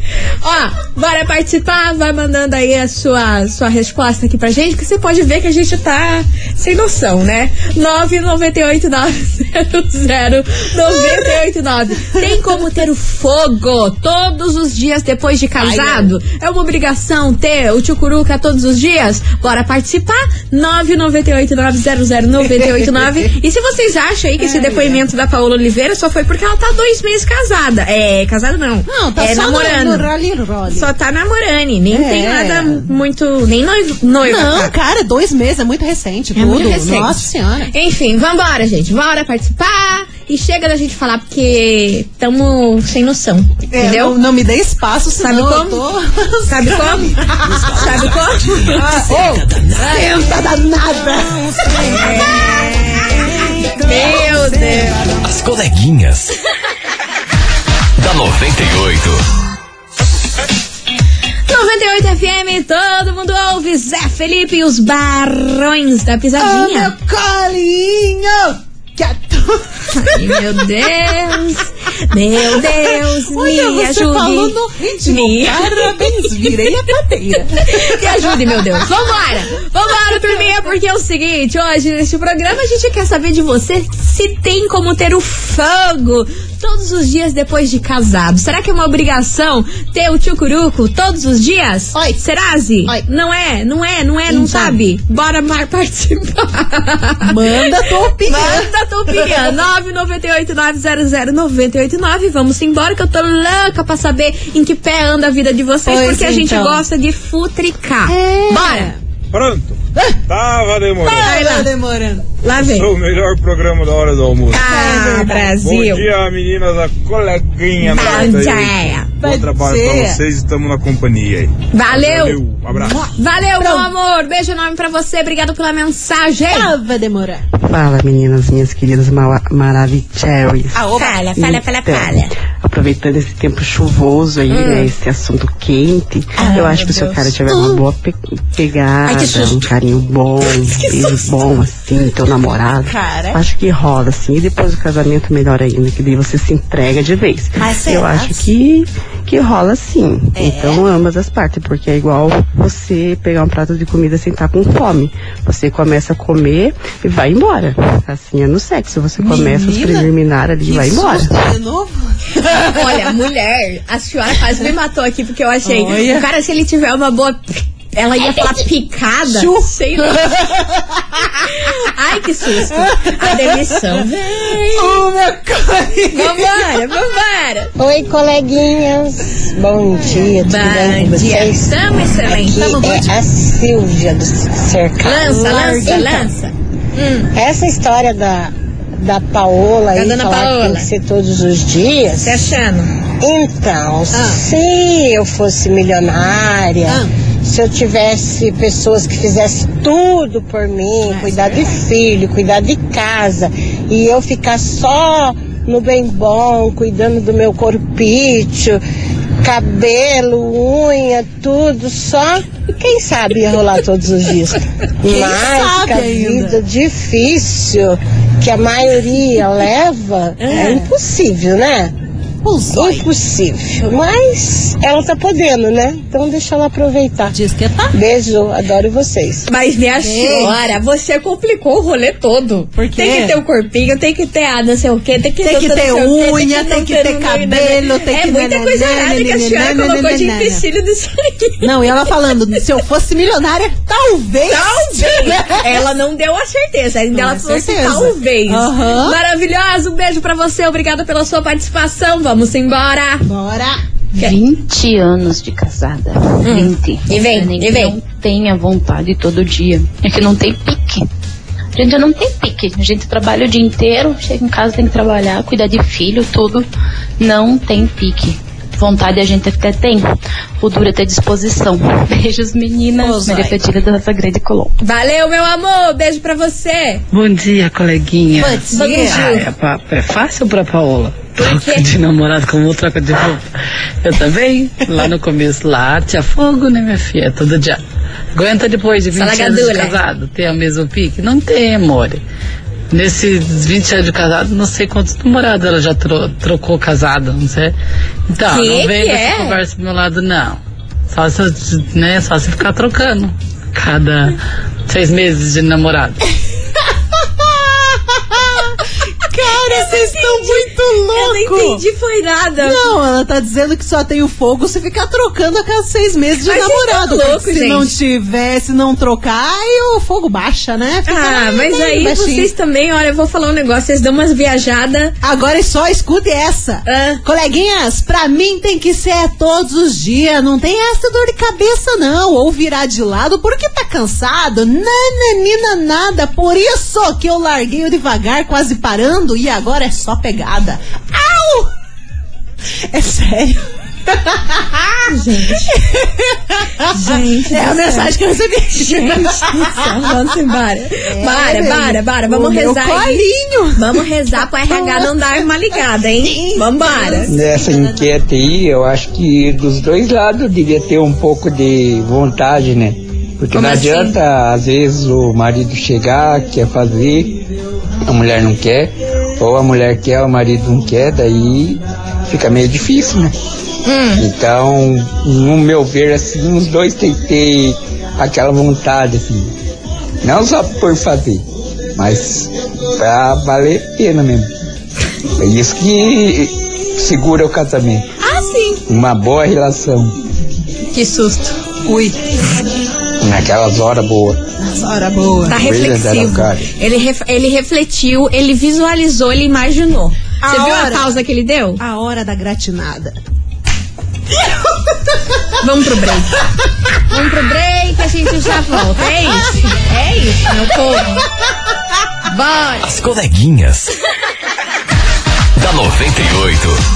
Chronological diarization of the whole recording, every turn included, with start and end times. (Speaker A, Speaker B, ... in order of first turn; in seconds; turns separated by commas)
Speaker A: 0.4-30.1, Speaker B: 15.6-16.1, Speaker B: 22.5-23.3, Speaker B: 24.4-25.0, Speaker B: 28.9-30.9, Speaker A: 30.7-34.7, Speaker B: 31.9-32.9, Speaker B: 34.2-37.7, Speaker A: 36.4-44.2, Speaker B: 43.7-55.1, Speaker A: 45.2-45.8, Speaker A: 46.5-47.2, Speaker C: 47.4-50.1, Speaker A: 47.7-50.1, Speaker A: 51.8-53.1, Speaker A: 53.8-55.0, Speaker C: 55.2-56.3, Speaker C: 58.0-59.2, Speaker A: 61.5-66.9, Speaker B: 66.4-70.6, Speaker A: 69.9-76.2, Speaker B: 72.5-79.2, Speaker A: 77.7-108.9, Speaker B: 80.1-80.4, Speaker B: 91.9-92.2, Speaker B: 94.3-94.8, Speaker B: 97.2-99.5, Speaker B: 105.8-106.8, Speaker B: 108.1-109.0, Speaker D: 109.3-111.4, Speaker B: 111.0-112.2, Speaker A: 111.1-111.7, Speaker A: 112.4-112.9, Speaker D: 112.6-114.6, Speaker A: 114.5-116.1, Speaker B: 114.6-115.5, Speaker D: 115.6-123.0, Speaker A: 117.8-119.1, Speaker B: 117.9-118.4, Speaker B: 119.2-120.2, Speaker A: 121.7-122.4, Speaker B: 122.7-123.9, Speaker A: 123.1-126.7, Speaker B: 126.5-127.4, Speaker E: 127.6-161.3, Speaker B: 130.7-131.2, Speaker A: 130.9-132.3, Speaker A: 134.5-134.9, Speaker B: 136.4-137.8, Speaker A: 136.5-137.2, Speaker A: 139.1-139.7, Speaker A: 140.5-141.2, Speaker B: 142.8-143.4, Speaker B: 147.6-148.5, Speaker B: 150.3-150.9, Speaker B: 159.2-163.1, Speaker A: 162.5-170.4, Speaker B: 165.6-166.3, Speaker B: 169.2-170.8, Speaker A: 171.6-175.0, Speaker B: 172.7-174.1, Speaker B: 174.6-176.8, Speaker A: 176.1-177.7, Speaker F: 177.8-185.3, Speaker B: 180.0-180.3, Speaker A: 180.4-182.9, Speaker B: 182.6-183.1, Speaker A: 185.0-187.3, Speaker B: 185.2-186.3, Speaker F: 187.3-192.5, Speaker A: 189.9-190.9, Speaker A: 192.2-192.9, Speaker F: 193.2-208.8, Speaker B: 194.1-194.4, Speaker B: 196.8-197.1, Speaker B: 201.1-201.8, Speaker F: 209.4-221.9, Speaker B: 215.0-216.6, Speaker A: 220.4-220.8, Speaker B: 220.5-220.9, Speaker B: 222.4-223.1, Speaker F: 222.7-227.3, Speaker B: 227.3-227.9, Speaker F: 227.9-229.5, Speaker A: 229.5-242.3, Speaker B: 230.0-230.7, Speaker B: 232.7-233.4, Speaker B: 235.4-240.6, Speaker B: 241.6-245.8, Speaker A: 244.5-253.3, Speaker B: 247.1-249.2, Speaker B: 253.2-253.8, Speaker G: 254.2-261.1, Speaker A: 256.4-258.0, Speaker G: 261.7-266.7, Speaker G: 267.2-274.7, Speaker B: 273.0-273.6, Speaker A: 274.8-277.0, Speaker H: 277.1-283.4, Speaker B: 278.3-279.3, Speaker A: 278.7-279.5, Speaker A: 281.4-281.9, Speaker H: 284.0-287.8, Speaker H: 288.3-292.2, Speaker A: 289.1-290.0, Speaker H: 292.9-297.7, Speaker H: 298.3-306.2, Speaker A: 298.4-299.6, Speaker B: 307.4-311.8, Speaker A: 309.6-312.9, Speaker B: 312.6-322.5, Speaker A: 316.4-317.9, Speaker A: 321.0-325.1, Speaker B: 325.2-341.7, Speaker A: 326.9-327.2, Speaker B: 342.9-345.0, Speaker A: 345.1-345.7, Speaker B: 345.6-349.9, Speaker A: 346.9-348.1, Speaker A: 348.7-357.3, Speaker B: 351.1-354.0, Speaker B: 354.7-355.1, Speaker B: 356.2-358.2, Speaker I: 357.3-367.4, Speaker A: 363.5-364.1, Speaker I: 368.1-373.3, Speaker A: 373.9-374.2, Speaker I: 374.2-379.5, Speaker I: 380.2-381.4, Speaker I: 382.0-384.5, Speaker I: 385.4-388.1, Speaker A: 388.2-388.8, Speaker I: 388.9-390.1, Speaker A: 390.9-391.6, Speaker B: 391.9-392.2, Speaker I: 393.2-394.4, Speaker B: 394.6-395.6, Speaker A: 395.5-401.8, Speaker I: 395.5-396.7, Speaker B: 400.4-401.1, Speaker B: 401.8-403.2, Speaker A: 405.6-406.4, Speaker A: 407.1-411.2, Speaker B: 409.0-409.4, Speaker A: 412.3-412.9, Speaker C: 412.8-413.9, Speaker C: 415.6-416.8